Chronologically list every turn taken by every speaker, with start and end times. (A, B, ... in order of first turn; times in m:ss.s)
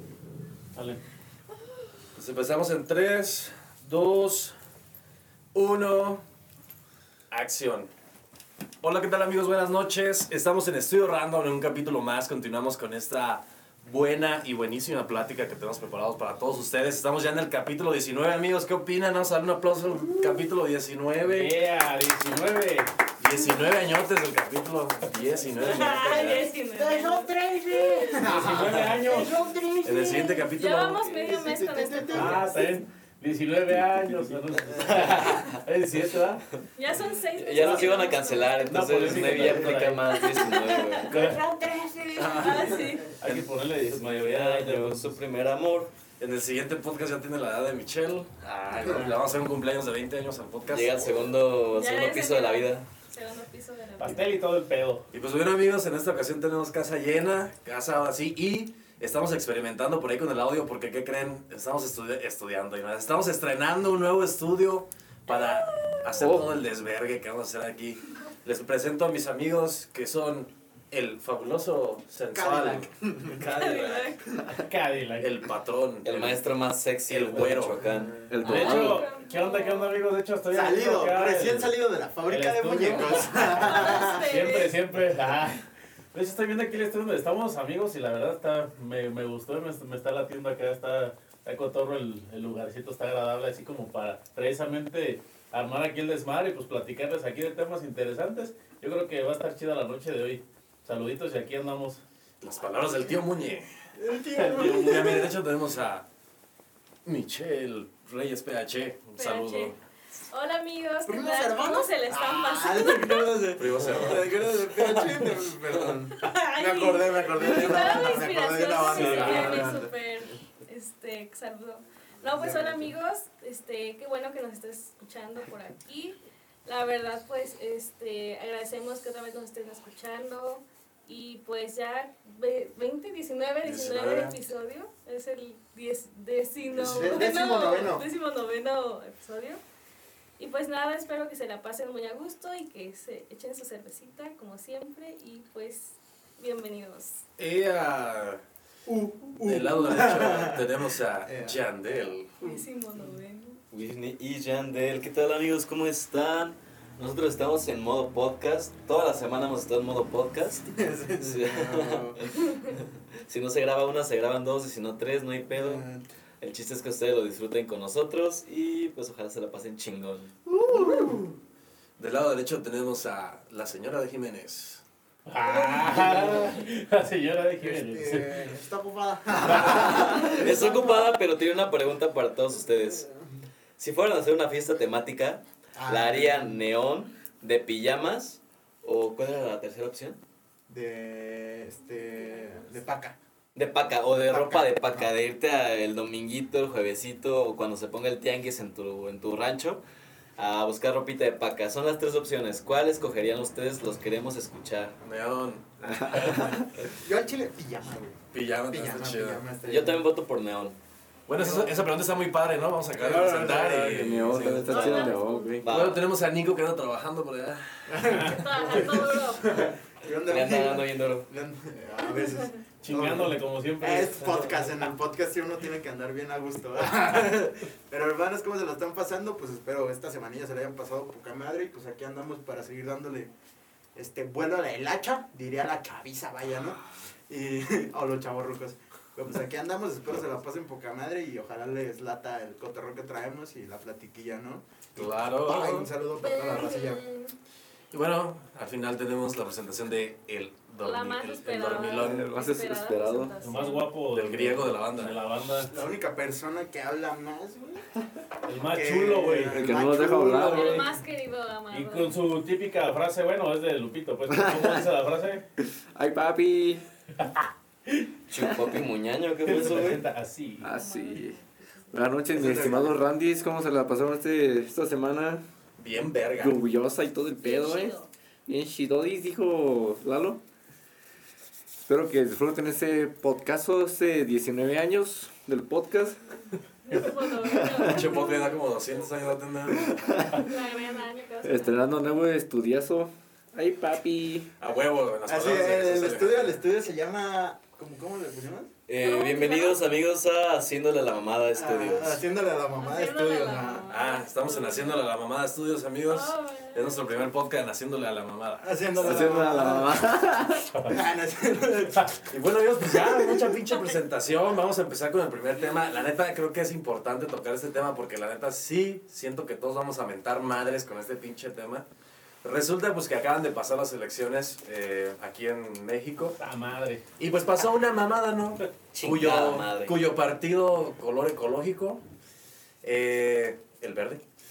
0:00.7-0:01.0 A
0:02.2-0:04.5 B
0:05.5-0:06.2 B
0:07.3-0:07.9 B
0:08.8-0:21.6 B
0:20.0-0:20.5 C
0:21.2-0:22.9 A
0:23.2-0:26.5 B
0:25.6-0:28.5 D
0:26.7-0:30.4 C
0:28.2-0:29.4 A
0:29.8-0:31.4 B
0:29.9-0:32.4 D
0:31.1-0:32.7 C
0:32.1-0:36.4 A
0:34.6-0:35.2 C
0:35.0-0:35.6 E
0:36.8-0:38.6 D
0:37.3-0:41.2 E
0:37.6-0:37.9 A
0:38.6-0:40.2 A
0:40.1-0:43.1 D
0:41.0-0:41.4 A
0:41.4-0:42.9 C
0:42.2-0:43.5 B
0:43.2-0:45.2 A
0:43.8-0:45.9 E
0:46.2-0:51.3 B
0:48.8-0:49.2 C
0:50.7-0:52.8 E
0:51.7-0:54.2 D
0:54.0-0:55.0 A
0:55.1-1:14.2 B
1:05.3-1:06.2 D
1:12.3-1:13.4 C
1:13.6-1:14.2 D
1:14.5-1:15.3 A
1:15.2-1:16.4 B
1:16.0-1:18.3 E
1:17.1-1:17.9 B
1:17.8-1:18.3 C
1:18.3-1:19.1 F
1:18.4-1:21.7 A
1:18.4-1:20.0 D
1:20.5-1:24.4 C
1:22.2-1:42.0 A
1:23.4-1:24.7 D
1:42.4-1:43.7 B
1:43.9-1:45.4 C
1:44.4-1:44.7 A
1:44.5-1:46.0 B
1:47.0-1:49.8 B
1:49.2-1:49.8 D
1:50.3-1:53.5 D
1:51.0-1:59.9 C
1:53.6-1:54.4 B
1:54.7-1:56.0 E
1:56.2-2:19.6 D
1:58.9-1:59.7 A
1:58.9-1:59.7 B
2:02.3-2:02.9 C
2:13.6-2:14.4 B
2:16.7-2:18.1 C
2:16.8-2:17.2 B
2:20.4-2:27.2 D
2:27.4-2:28.4 B
2:28.8-2:31.6 C
2:29.4-2:32.3 B
2:32.4-2:33.1 C
2:32.4-2:33.6 D
2:33.7-2:45.8 E
2:40.7-2:42.2 C
2:45.5-2:46.0 C
2:46.4-2:50.3 E
2:50.5-2:51.3 C
2:50.7-2:51.2 B
2:52.0-2:54.8 B
2:55.2-2:58.4 A
2:55.4-2:56.6 C
2:57.6-3:01.1 C
2:59.6-3:03.1 E
3:03.8-3:10.2 E
3:05.8-3:06.7 C
3:10.7-3:13.2 C
3:13.5-3:19.8 E
3:14.3-3:15.1 C
3:20.4-3:25.0 E
3:25.0-3:26.5 B
3:25.8-3:26.7 F
3:26.9-3:30.0 C
3:28.3-3:29.4 B
3:29.6-3:30.8 E
3:31.3-3:34.9 B
3:31.3-3:31.8 C
3:33.0-3:35.7 F
3:34.3-3:36.0 E
3:34.6-3:35.6 D
3:35.7-3:38.2 B
3:37.9-3:53.3 C
3:38.2-3:39.7 D
3:40.2-3:41.3 E
3:42.2-3:42.5 D
3:42.8-3:44.6 A
3:53.9-4:07.0 C
4:05.0-4:05.9 B
4:06.2-4:07.3 D
4:07.9-4:12.3 B
4:10.8-4:13.9 D
4:11.9-4:13.4 F
4:13.4-4:15.7 A
4:14.1-4:15.2 B
4:15.7-4:17.9 C
4:18.4-4:20.9 A
4:18.6-4:20.5 C
4:19.5-4:20.8 F
4:20.0-4:20.8 B
4:20.4-4:22.2 D
4:21.7-4:25.4 A
4:24.3-4:24.8 F
4:25.6-4:26.8 F
4:27.2-4:28.1 A
4:28.3-4:30.0 E
4:29.4-4:30.7 A
4:30.6-4:31.4 F
4:30.7-4:32.2 D
4:31.9-4:35.4 F
4:32.3-4:33.0 B
4:32.4-4:32.8 C
4:35.8-4:36.6 B
4:36.4-4:40.4 F
4:37.4-4:38.1 D
4:41.8-4:46.2 F
4:46.8-4:48.6 D
4:47.4-4:48.0 F
4:47.7-4:50.1 B
4:49.8-4:50.4 F
4:50.4-4:51.9 D
4:51.4-4:54.5 F
4:54.6-4:56.6 B
4:55.2-4:58.7 C
4:58.9-5:02.2 E
4:59.0-4:59.8 D
5:01.5-5:03.9 C
5:02.8-5:05.1 D
5:03.9-5:09.4 B
5:06.1-5:07.4 D
5:08.6-5:12.1 C
5:09.0-5:10.7 F
5:12.2-5:21.9 B
5:12.9-5:13.6 C
5:22.4-5:26.4 B
5:26.4-5:27.0 A
5:27.2-5:32.0 B
5:28.9-5:30.0 E
5:32.8-5:34.2 B